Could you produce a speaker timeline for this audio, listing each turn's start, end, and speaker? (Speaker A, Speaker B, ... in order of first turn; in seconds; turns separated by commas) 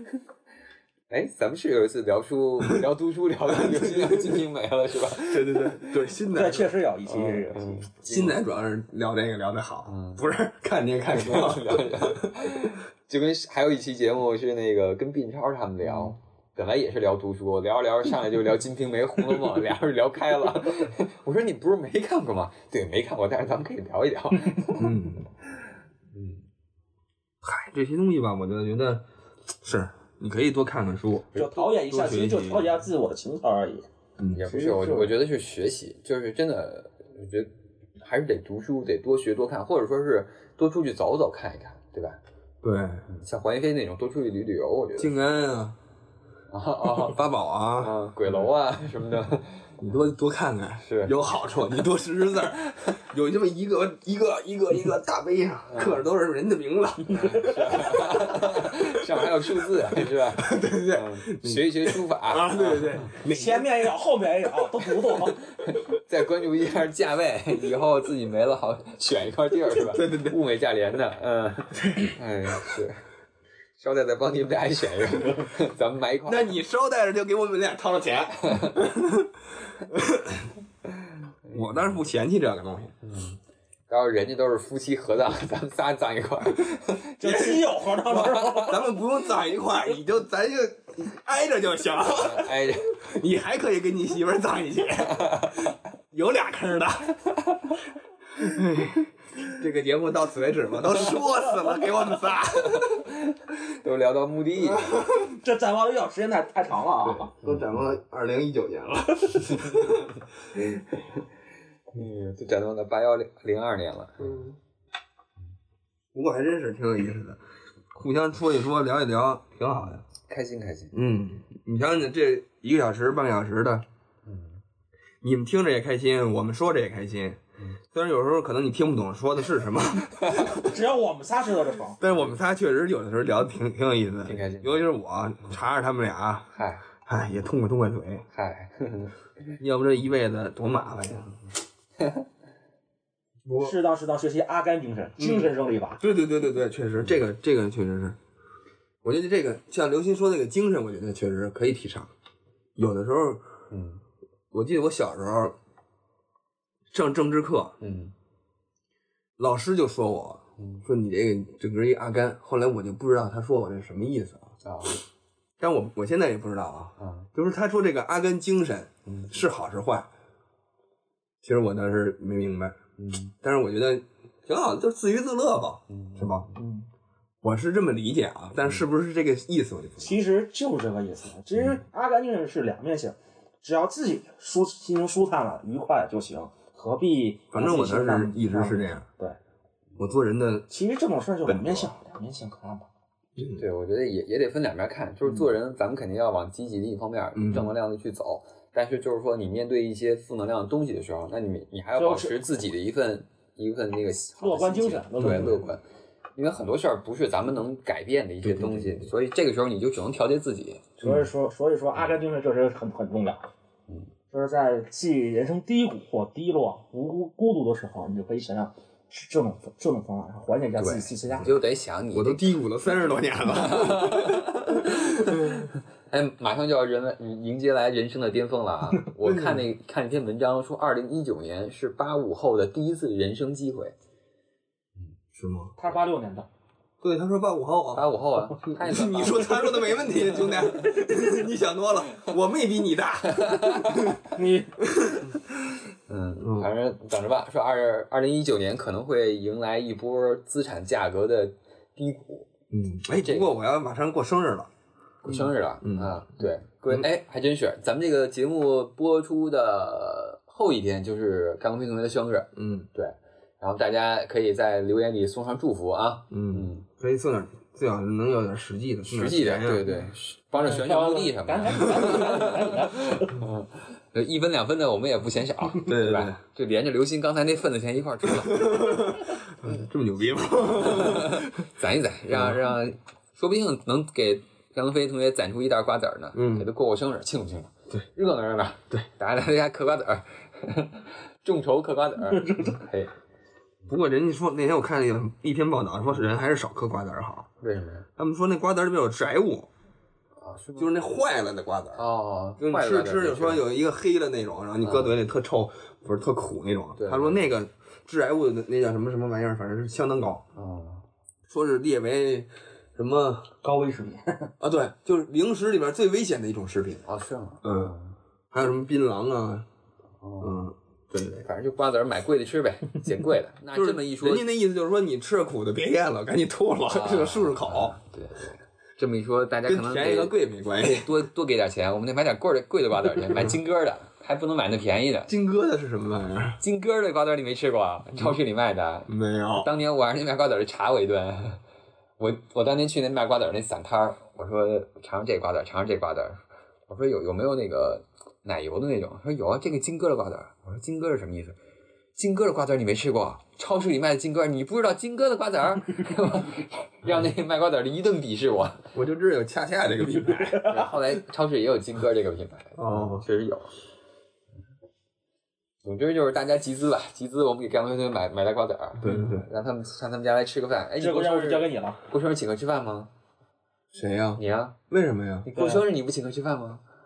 Speaker A: 1.1-6.0, Speaker B: 3.5-4.4, Speaker B: 5.2-6.7, Speaker C: 6.3-7.8, Speaker A: 7.1-8.4, Speaker B: 8.1-12.7, Speaker A: 9.9-10.2, Speaker A: 11.1-24.9, Speaker B: 24.8-25.3, Speaker A: 26.1-26.4, Speaker B: 27.4-29.0, Speaker B: 29.6-32.7, Speaker A: 31.3-31.7, Speaker C: 31.3-35.1, Speaker A: 34.3-42.2, Speaker B: 42.6-43.0, Speaker A: 43.1-45.1, Speaker B: 45.0-45.8, Speaker A: 46.5-47.2, Speaker B: 46.9-48.4, Speaker A: 47.8-49.7, Speaker B: 49.8-57.6, Speaker A: 50.8-51.1, Speaker A: 55.7-56.1, Speaker A: 57.1-63.1, Speaker C: 57.2-57.5, Speaker B: 58.4-59.3, Speaker B: 59.8-63.9, Speaker C: 63.2-65.4, Speaker A: 65.7-73.0, Speaker B: 69.9-70.4, Speaker A: 73.8-76.5, Speaker B: 76.2-80.5, Speaker A: 78.4-78.8, Speaker A: 81.5-81.8, Speaker B: 81.5-83.0, Speaker A: 83.0-83.4, Speaker A: 83.9-87.2, Speaker C: 87.2-88.8, Speaker B: 87.2-97.2, Speaker A: 88.1-88.8, Speaker A: 92.2-93.0, Speaker A: 95.1-95.7, Speaker B: 98.3-103.1, Speaker A: 102.6-105.0, Speaker B: 104.8-105.3, Speaker C: 105.1-107.3, Speaker B: 107.0-110.1, Speaker A: 107.4-107.7, Speaker A: 111.9-114.4, Speaker B: 114.2-114.5, Speaker B: 116.1-117.4, Speaker B: 117.9-120.0, Speaker A: 120.2-120.9, Speaker B: 120.9-123.8, Speaker A: 124.2-124.6, Speaker B: 125.2-127.4, Speaker B: 127.9-130.7, Speaker C: 130.5-132.0, Speaker B: 132.0-136.5, Speaker A: 134.2-134.9, Speaker A: 136.5-136.8, Speaker B: 137.0-138.3, Speaker A: 138.3-139.1, Speaker B: 139.6-141.3, Speaker B: 143.4-143.8, Speaker C: 143.6-146.0, Speaker B: 145.2-148.2, Speaker B: 149.0-152.1, Speaker B: 152.8-153.4, Speaker A: 153.7-154.0, Speaker B: 154.5-155.6, Speaker B: 156.9-157.8, Speaker A: 157.8-158.1, Speaker B: 159.4-164.5, Speaker A: 160.6-160.8, Speaker A: 164.6-165.0, Speaker B: 165.6-170.1, Speaker A: 167.0-167.3, Speaker A: 169.1-169.3, Speaker B: 171.4-172.8, Speaker A: 173.0-173.3, Speaker B: 173.4-176.5, Speaker A: 175.9-176.5, Speaker C: 176.6-176.8, Speaker B: 177.4-180.1, Speaker C: 180.0-189.4, Speaker B: 187.5-189.1, Speaker B: 190.0-190.7, Speaker C: 190.7-192.8, Speaker B: 191.5-191.9, Speaker B: 193.4-193.6, Speaker A: 193.6-205.8, Speaker B: 197.3-197.7, Speaker C: 201.9-202.4, Speaker C: 204.4-205.7, Speaker B: 205.2-205.5, Speaker A: 206.3-211.1, Speaker B: 208.4-209.1, Speaker C: 211.0-213.4, Speaker C: 214.3-221.5, Speaker A: 220.8-222.5, Speaker B: 222.1-225.7, Speaker A: 223.5-233.9, Speaker B: 229.2-229.6, Speaker B: 235.3-235.7, Speaker C: 235.8-236.5, Speaker B: 237.0-244.2, Speaker A: 237.9-240.2, Speaker A: 243.4-244.1, Speaker C: 244.3-244.8, Speaker B: 244.9-245.3, Speaker A: 246.1-252.5, Speaker B: 246.4-246.7, Speaker B: 252.7-254.7, Speaker A: 253.1-253.5, Speaker A: 255.2-266.8, Speaker B: 255.2-256.1, Speaker B: 262.5-262.9, Speaker B: 266.3-269.9, Speaker A: 269.1-279.1, Speaker C: 270.5-273.4, Speaker B: 275.8-276.4, Speaker B: 278.4-281.7, Speaker A: 280.9-293.1, Speaker B: 282.3-282.6, Speaker B: 286.3-286.7, Speaker C: 292.4-292.7, Speaker B: 293.9-297.5, Speaker A: 297.6-298.1, Speaker B: 298.2-299.7, Speaker A: 300.4-301.1, Speaker B: 300.8-302.0, Speaker A: 301.9-303.6, Speaker B: 302.6-310.4, Speaker A: 304.8-305.2, Speaker A: 307.0-307.4, Speaker A: 310.5-311.0, Speaker B: 311.5-313.5, Speaker C: 313.6-314.5, Speaker B: 314.6-317.0, Speaker A: 317.1-318.1, Speaker B: 317.6-317.9, Speaker B: 318.5-319.7, Speaker A: 320.2-320.7, Speaker B: 320.4-321.4, Speaker A: 321.4-324.4, Speaker B: 323.7-327.9, Speaker A: 326.9-330.3, Speaker B: 329.6-331.2, Speaker A: 330.9-335.3, Speaker B: 335.3-336.6, Speaker A: 336.6-341.6, Speaker B: 339.1-339.7, Speaker A: 342.2-351.6, Speaker A: 352.2-358.9, Speaker B: 358.9-360.9, Speaker A: 360.6-363.7, Speaker B: 362.8-363.2, Speaker A: 365.8-373.1, Speaker B: 369.0-369.5, Speaker C: 371.0-372.0, Speaker B: 373.9-375.5, Speaker A: 374.4-374.8, Speaker A: 375.4-376.8, Speaker C: 375.5-375.8